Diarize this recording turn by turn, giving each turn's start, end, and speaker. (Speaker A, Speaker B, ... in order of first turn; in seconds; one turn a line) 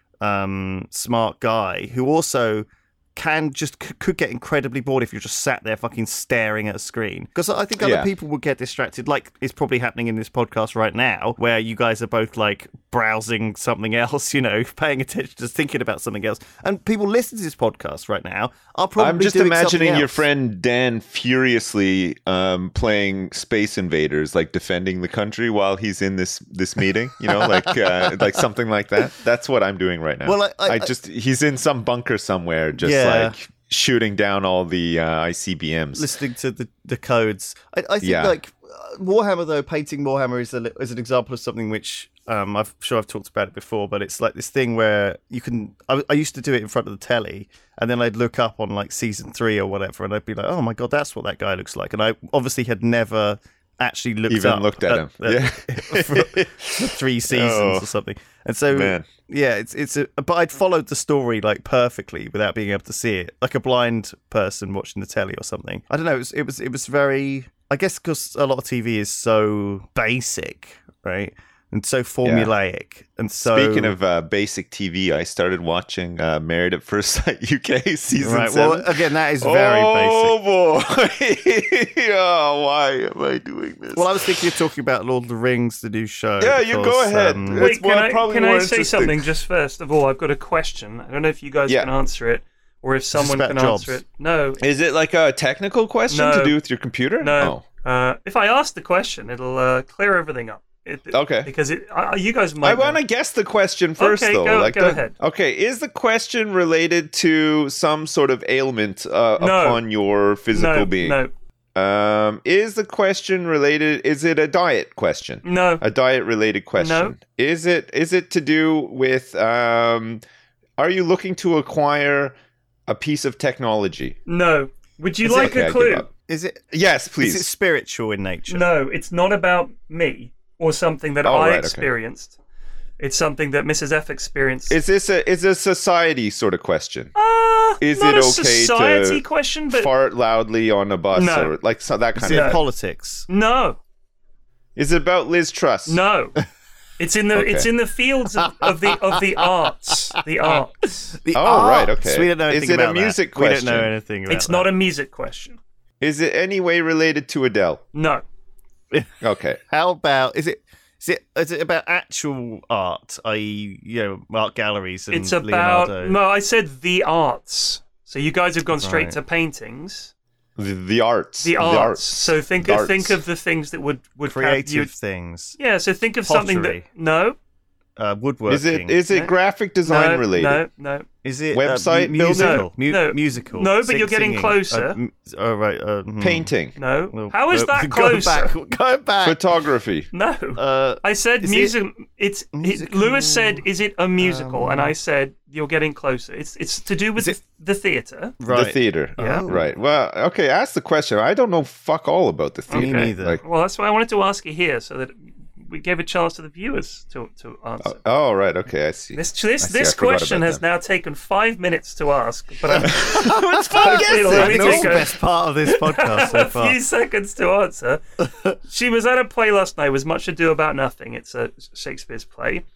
Speaker A: 0.2-20.2
Speaker B: 7.8-8.1
Speaker B: 19.0-36.1
Speaker A: 27.3-28.4
Speaker A: 30.2-30.9
Speaker A: 32.8-33.3
Speaker A: 36.0-73.9
Speaker B: 38.0-38.4
Speaker B: 54.3-57.9
Speaker B: 58.7-59.1
Speaker B: 72.2-72.5
Speaker B: 73.4-84.5
Speaker A: 78.2-80.3
Speaker A: 83.9-87.7
Speaker B: 86.4-89.2
Speaker C: 87.6-94.6
Speaker A: 93.1-94.0
Speaker B: 94.6-97.6
Speaker C: 96.1-96.6
Speaker C: 97.2-103.0
Speaker B: 101.1-101.5
Speaker B: 102.6-111.2
Speaker C: 104.0-105.1
Speaker C: 109.4-109.8
Speaker C: 110.5-111.3
Speaker B: 111.7-120.2
Speaker C: 115.4-115.8
Speaker C: 116.8-117.2
Speaker B: 120.8-122.3
Speaker B: 122.9-124.2
Speaker C: 124.3-126.1
Speaker B: 125.2-126.1
Speaker A: 126.3-128.7
Speaker B: 126.7-127.5
Speaker C: 128.5-132.4
Speaker B: 131.2-131.9
Speaker C: 133.0-134.8
Speaker B: 134.7-137.1
Speaker C: 137.2-139.9
Speaker B: 137.8-142.6
Speaker C: 141.1-141.5
Speaker A: 142.1-143.3
Speaker C: 142.3-142.6
Speaker C: 143.3-143.8
Speaker B: 144.8-146.0
Speaker C: 145.9-146.4
Speaker C: 147.0-151.2
Speaker B: 147.3-147.7
Speaker A: 148.4-149.2
Speaker A: 149.9-150.6
Speaker A: 151.2-154.7
Speaker B: 151.3-153.9
Speaker C: 154.3-155.6
Speaker B: 156.0-157.8
Speaker C: 157.9-158.2
Speaker B: 159.2-159.6
Speaker A: 159.7-166.2
Speaker C: 165.1-170.1
Speaker A: 168.7-169.2
Speaker B: 170.6-173.2
Speaker C: 171.4-174.9
Speaker A: 174.2-175.6
Speaker C: 175.6-177.4
Speaker A: 176.2-176.8
Speaker A: 178.0-179.0
Speaker B: 178.5-180.6
Speaker C: 179.8-181.1
Speaker A: 181.2-186.5
Speaker B: 181.5-182.6
Speaker C: 182.3-185.0
Speaker B: 186.2-186.8
Speaker C: 186.8-188.5
Speaker A: 187.1-189.4
Speaker B: 189.2-190.1
Speaker C: 190.1-198.4
Speaker A: 190.6-191.7
Speaker A: 192.6-193.6
Speaker A: 194.2-194.9
Speaker A: 198.4-199.7
Speaker B: 198.5-203.4
Speaker C: 199.2-199.4
Speaker C: 202.7-208.0
Speaker A: 202.7-203.4
Speaker B: 207.8-210.6
Speaker C: 209.2-215.1
Speaker A: 212.7-216.8
Speaker B: 212.8-215.1
Speaker C: 215.7-218.0
Speaker A: 218.2-218.5
Speaker C: 218.5-222.6